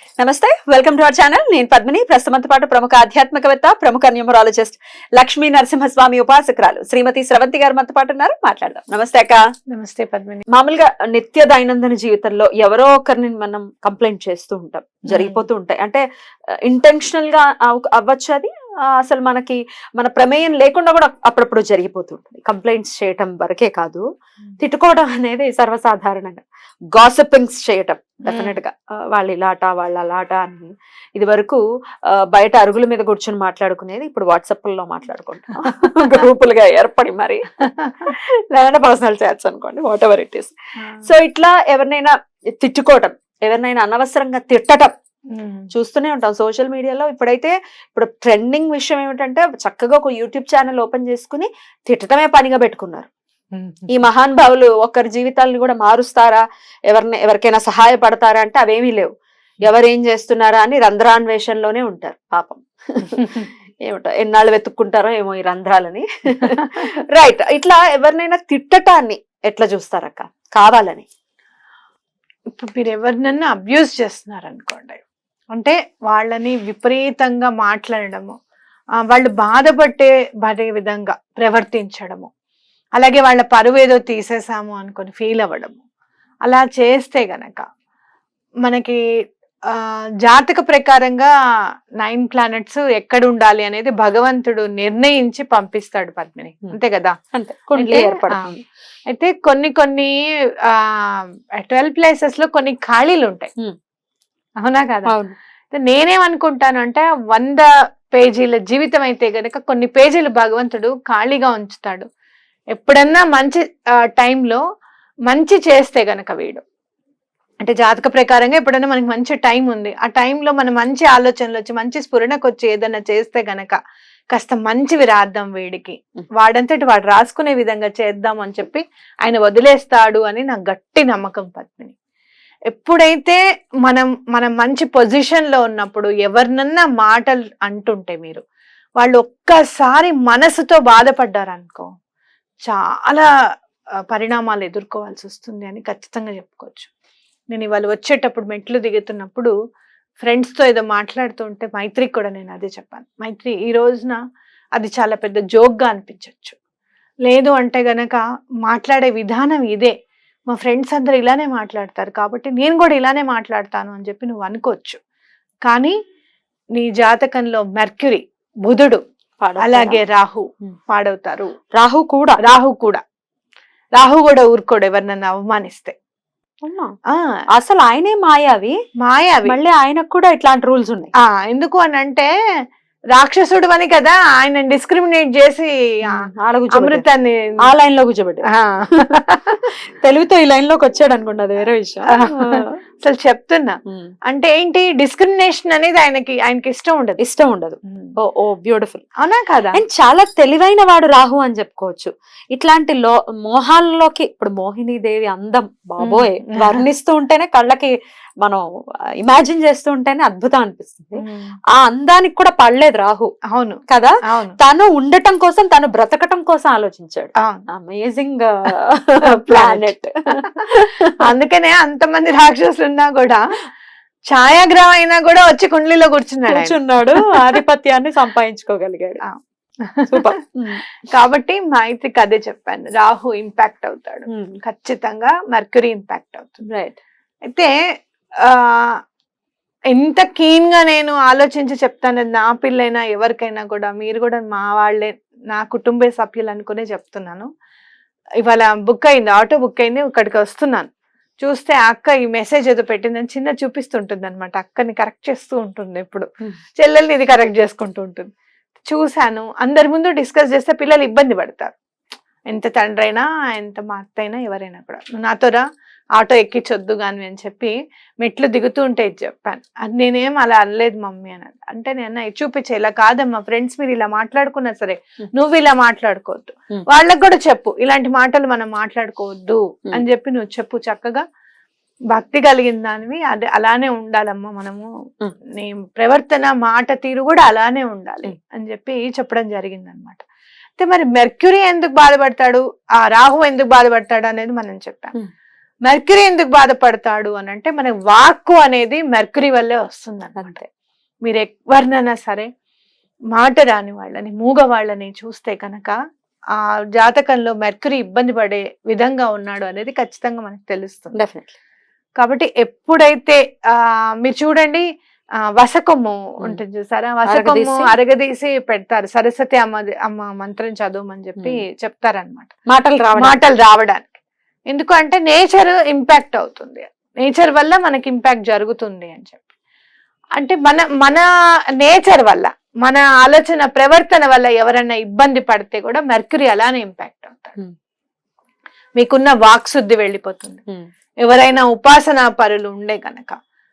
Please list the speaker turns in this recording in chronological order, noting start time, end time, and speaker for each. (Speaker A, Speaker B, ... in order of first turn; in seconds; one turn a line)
Speaker A: 0.2-9.4
Speaker B: 9.7-10.4
Speaker A: 10.5-16.0
Speaker B: 15.1-15.4
Speaker A: 16.6-24.0
Speaker A: 24.6-37.5
Speaker B: 28.3-28.6
Speaker B: 37.8-38.1
Speaker A: 38.0-40.5
Speaker B: 40.8-41.0
Speaker A: 41.0-44.9
Speaker B: 45.3-45.7
Speaker A: 45.7-53.1
Speaker B: 53.5-53.9
Speaker A: 53.9-59.1
Speaker A: 59.6-71.0
Speaker B: 72.5-75.0
Speaker B: 75.5-78.3
Speaker B: 79.0-82.3
Speaker B: 83.0-85.8
Speaker B: 86.5-87.6
Speaker B: 88.6-89.0
Speaker B: 89.7-91.3
Speaker B: 92.0-97.1
Speaker A: 97.3-98.6
Speaker B: 97.8-98.4
Speaker B: 99.1-100.1
Speaker B: 101.1-103.5
Speaker B: 104.6-105.1
Speaker A: 105.0-105.3
Speaker B: 105.7-112.0
Speaker B: 112.7-114.6
Speaker B: 115.3-116.6
Speaker B: 117.6-123.8
Speaker B: 124.3-131.9
Speaker B: 132.7-138.4
Speaker B: 139.0-141.9
Speaker B: 142.7-143.3
Speaker B: 144.1-146.9
Speaker B: 147.5-149.5
Speaker B: 150.2-154.2
Speaker B: 154.8-156.6
Speaker B: 157.3-159.9
Speaker B: 160.5-165.0
Speaker B: 165.6-165.9
Speaker B: 166.8-169.0
Speaker A: 169.4-170.0
Speaker B: 169.6-171.5
Speaker A: 171.8-172.4
Speaker B: 172.4-173.0
Speaker B: 173.9-175.9
Speaker A: 176.6-176.9
Speaker A: 177.6-178.8
Speaker B: 179.0-179.6
Speaker A: 179.4-181.1
Speaker B: 181.2-182.3
Speaker B: 183.1-185.7
Speaker A: 186.1-187.0
Speaker B: 186.7-187.5
Speaker A: 187.7-189.1
Speaker B: 188.5-189.5
Speaker A: 190.0-192.7
Speaker B: 192.1-193.8
Speaker B: 194.3-197.2
Speaker A: 197.2-199.0
Speaker B: 199.2-199.8
Speaker A: 199.7-208.6
Speaker B: 206.0-206.8
Speaker A: 209.2-211.2
Speaker B: 211.2-211.5
Speaker A: 211.7-213.3
Speaker B: 213.5-214.6
Speaker A: 213.9-221.2
Speaker B: 219.4-219.8
Speaker B: 221.2-223.4
Speaker B: 224.3-227.4
Speaker A: 226.5-229.2
Speaker B: 229.2-230.2
Speaker A: 230.1-230.8
Speaker B: 231.1-236.6
Speaker A: 234.3-234.6
Speaker A: 236.7-237.0
Speaker B: 238.4-239.0
Speaker B: 239.9-247.5
Speaker B: 248.4-250.9
Speaker B: 251.4-258.3
Speaker B: 258.9-261.7
Speaker B: 262.5-265.6
Speaker B: 266.2-281.2
Speaker B: 282.1-284.9
Speaker B: 285.6-290.2
Speaker B: 290.8-295.2
Speaker B: 295.8-300.6
Speaker A: 300.4-300.6
Speaker B: 301.2-302.5
Speaker B: 303.3-306.0
Speaker B: 306.6-311.2
Speaker A: 311.1-311.5
Speaker B: 312.2-314.9
Speaker B: 315.5-322.5
Speaker A: 317.3-317.9
Speaker A: 322.7-323.4
Speaker B: 323.2-329.4
Speaker B: 330.4-331.2
Speaker B: 331.8-337.6
Speaker B: 339.0-340.6
Speaker B: 341.2-343.4